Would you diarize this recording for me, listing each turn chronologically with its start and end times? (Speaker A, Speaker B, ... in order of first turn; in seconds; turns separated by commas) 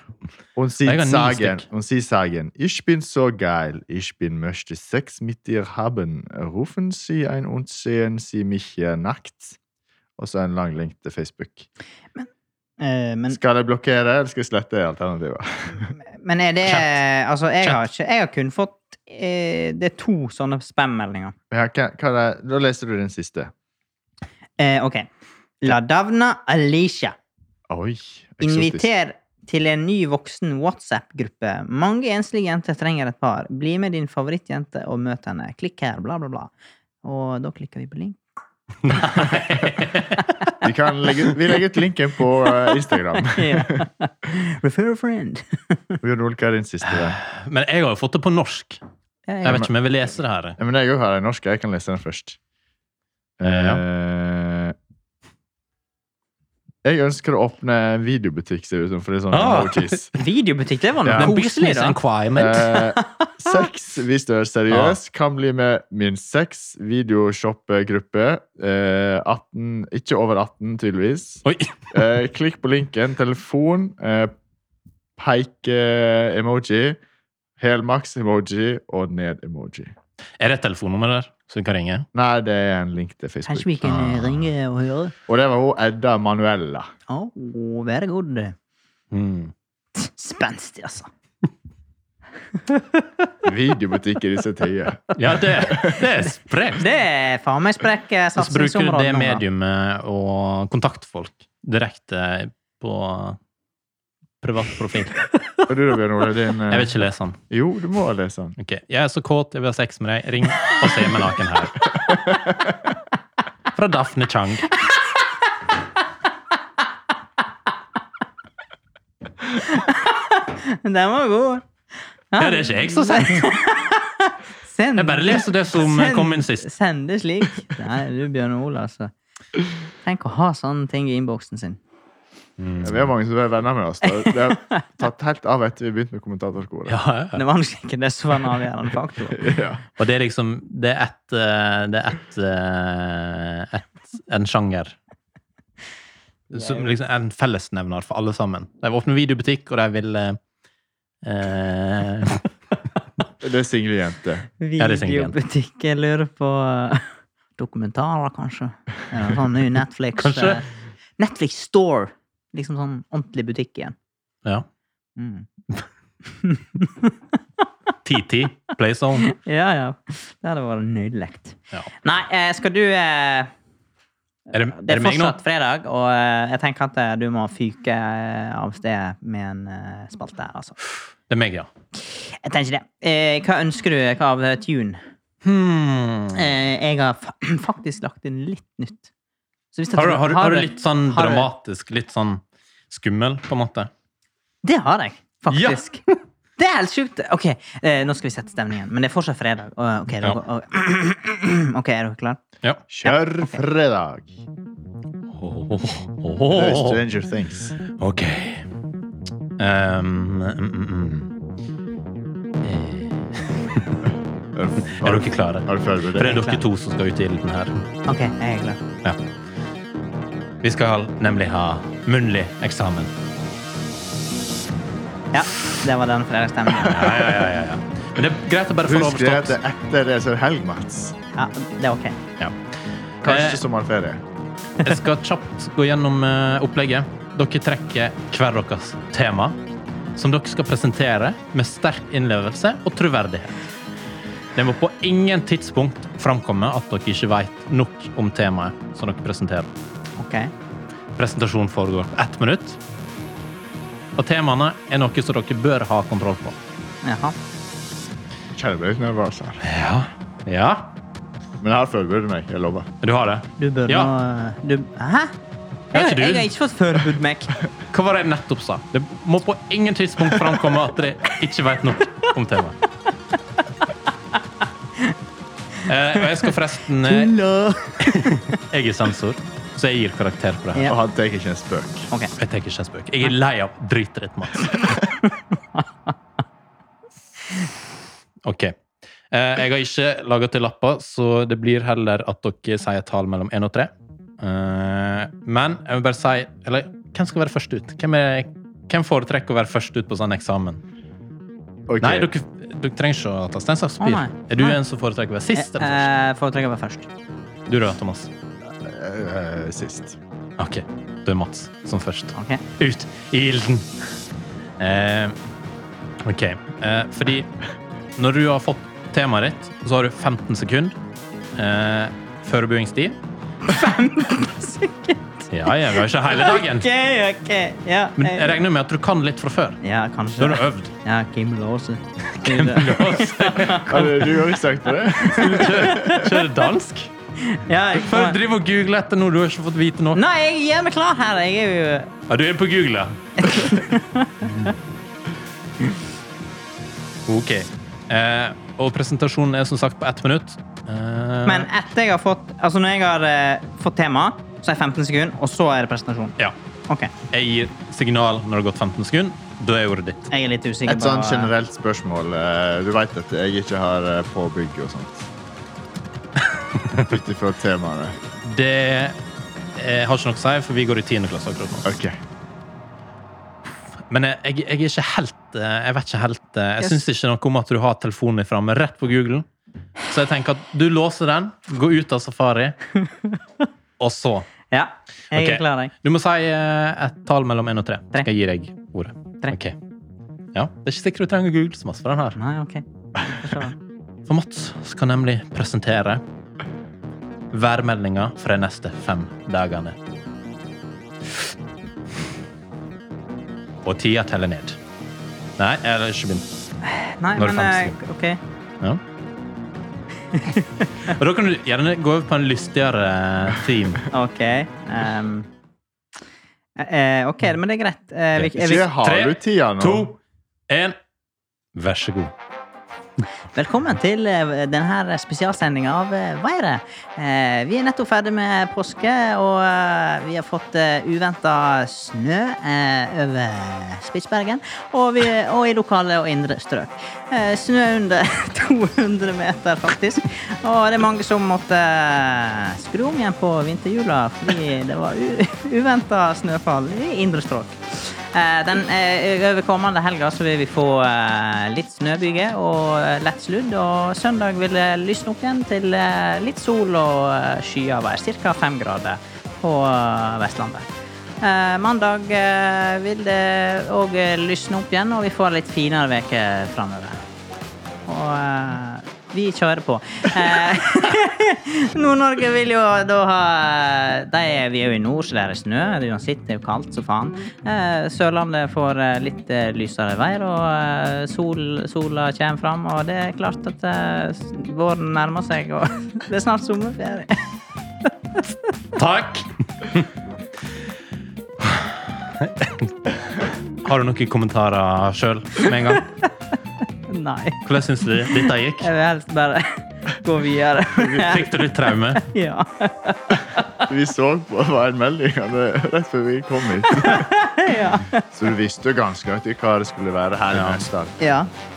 Speaker A: 0.6-9.6, Speaker B: 0.8-1.6, Speaker A: 10.2-11.7, Speaker C: 12.8-13.4, Speaker A: 13.3-15.9, Speaker C: 16.1-21.4, Speaker B: 16.6-17.0, Speaker A: 21.5-23.5, Speaker C: 24.6-25.1, Speaker C: 25.6-27.2, Speaker A: 27.7-28.9, Speaker C: 28.4-36.5, Speaker C: 37.0-38.2, Speaker B: 38.8-40.3, Speaker A: 40.6-43.9, Speaker C: 43.1-46.0, Speaker A: 46.0-47.2, Speaker B: 46.9-48.8, Speaker C: 49.3-49.7, Speaker B: 49.4-50.6, Speaker A: 50.6-52.4, Speaker A: 53.4-54.8, Speaker B: 53.4-53.8, Speaker A: 56.8-60.1, Speaker B: 59.3-60.1, Speaker C: 60.2-62.0, Speaker A: 61.0-61.3, Speaker B: 61.1-62.7, Speaker A: 62.3-74.3, Speaker C: 62.6-63.3, Speaker B: 64.7-65.0, Speaker B: 71.5-72.0, Speaker A: 75.2-77.0, Speaker A: 77.6-79.9, Speaker B: 80.4-82.1, Speaker A: 82.1-84.0, Speaker C: 83.5-85.1, Speaker A: 85.3-86.9, Speaker C: 87.1-88.6, Speaker B: 89.1-89.5, Speaker C: 90.0-91.1, Speaker C: 92.7-93.1, Speaker A: 93.4-96.0, Speaker B: 95.2-96.9, Speaker C: 96.8-99.4, Speaker B: 98.4-103.4, Speaker B: 104.4-105.3, Speaker A: 105.7-106.9, Speaker B: 106.7-107.4, Speaker A: 107.5-108.6, Speaker B: 108.6-112.0, Speaker B: 113.7-114.8, Speaker C: 119.5-121.7, Speaker C: 122.3-129.1, Speaker B: 122.4-123.5, Speaker B: 125.0-126.7, Speaker C: 130.0-131.8, Speaker B: 132.6-133.1, Speaker A: 132.8-137.0, Speaker C: 134.1-134.8, Speaker B: 136.9-137.4, Speaker C: 137.3-139.5, Speaker A: 139.4-139.8, Speaker B: 140.0-145.0, Speaker B: 146.5-150.4, Speaker C: 146.6-146.8, Speaker B: 151.2-152.5, Speaker A: 153.4-154.5, Speaker C: 154.6-160.7, Speaker B: 154.8-155.3, Speaker B: 160.2-160.6, Speaker C: 161.2-163.9, Speaker C: 165.2-165.5, Speaker C: 166.4-167.2, Speaker B: 168.1-169.3, Speaker C: 169.2-173.5, Speaker B: 174.5-175.4, Speaker C: 174.6-180.8, Speaker B: 181.3-181.7, Speaker C: 182.0-185.0, Speaker B: 185.4-186.5, Speaker C: 186.3-189.1, Speaker C: 189.7-191.5, Speaker B: 189.9-193.9, Speaker C: 194.6-196.0, Speaker B: 195.5-196.1, Speaker C: 196.6-202.4, Speaker A: 202.9-204.3, Speaker B: 205.3-207.0, Speaker A: 206.5-207.8, Speaker B: 207.9-208.7, Speaker B: 209.6-211.3, Speaker B: 212.6-214.0, Speaker A: 214.5-216.4, Speaker B: 214.9-217.8, Speaker C: 216.2-216.6, Speaker C: 218.1-218.8, Speaker B: 220.6-223.1, Speaker C: 225.3-227.2, Speaker B: 226.8-229.6, Speaker A: 227.0-227.3, Speaker A: 228.8-231.1, Speaker C: 231.3-232.2, Speaker B: 233.2-233.6, Speaker A: 233.2-234.2, Speaker B: 234.8-239.6, Speaker B: 240.2-243.6, Speaker B: 244.6-249.7, Speaker C: 250.2-250.5, Speaker B: 251.2-252.8, Speaker B: 254.2-256.6, Speaker C: 257.0-257.4, Speaker A: 258.5-259.6, Speaker B: 259.6-260.9, Speaker A: 261.6-262.9, Speaker B: 263.0-264.1, Speaker C: 263.6-265.3, Speaker B: 265.9-266.5, Speaker C: 265.9-267.6, Speaker B: 267.9-272.8, Speaker B: 275.9-277.4, Speaker C: 276.2-276.5, Speaker C: 277.0-278.4, Speaker B: 278.0-280.9, Speaker A: 280.8-282.1, Speaker B: 282.4-284.9, Speaker C: 285.2-286.1, Speaker B: 288.4-288.8, Speaker B: 289.3-300.8, Speaker A: 301.9-302.3, Speaker B: 302.0-306.1, Speaker C: 304.0-304.8, Speaker C: 305.6-307.1, Speaker B: 307.7-308.3, Speaker A: 308.8-310.2, Speaker B: 310.6-313.9, Speaker C: 312.4-312.6, Speaker B: 314.8-315.4, Speaker B: 316.2-317.5, Speaker B: 318.1-320.9, Speaker B: 321.6-323.2, Speaker C: 323.6-328.6, Speaker B: 325.5-326.9, Speaker B: 328.2-329.8, Speaker C: 329.8-334.3, Speaker B: 330.4-330.9, Speaker B: 332.4-334.4, Speaker A: 333.8-336.4, Speaker B: 335.2-337.1, Speaker C: 335.3-336.2, Speaker C: 337.4-338.4, Speaker B: 337.9-340.2, Speaker C: 340.1-342.1, Speaker B: 342.3-343.4, Speaker C: 343.4-344.7, Speaker B: 347.3-351.7, Speaker C: 351.4-356.4, Speaker B: 357.3-360.3, Speaker C: 360.3-361.5, Speaker A: 360.9-365.3, Speaker A: 366.9-368.2, Speaker B: 368.4-369.2, Speaker B: 369.8-371.9, Speaker A: 371.8-372.2, Speaker B: 374.1-379.5, Speaker B: 380.1-382.8, Speaker C: 383.0-383.4, Speaker B: 384.0-384.5, Speaker C: 384.7-385.9, Speaker B: 385.3-389.8, Speaker B: 390.5-392.4, Speaker C: 392.4-393.8, Speaker B: 394.3-396.2, Speaker B: 397.5-400.0, Speaker B: 403.9-404.8, Speaker B: 405.6-406.4, Speaker C: 406.9-408.4, Speaker B: 407.4-407.9, Speaker C: 410.3-411.1, Speaker B: 411.0-414.1, Speaker C: 414.1-415.5, Speaker C: 416.8-418.9, Speaker B: 418.4-420.2, Speaker A: 418.6-420.1, Speaker B: 420.7-420.9, Speaker B: 421.8-422.3, Speaker C: 423.5-460.9, Speaker C: 461.4-467.2, Speaker C: 468.1-487.4, Speaker B: 488.9-490.1, Speaker B: 491.6-496.1, Speaker C: 497.1-497.6, Speaker B: 497.6-498.9, Speaker C: 498.2-501.5, Speaker B: 501.1-502.3, Speaker C: 502.1-503.9, Speaker A: 503.8-507.3, Speaker C: 506.8-508.2, Speaker A: 508.3-511.2, Speaker B: 510.5-510.9, Speaker C: 511.2-511.5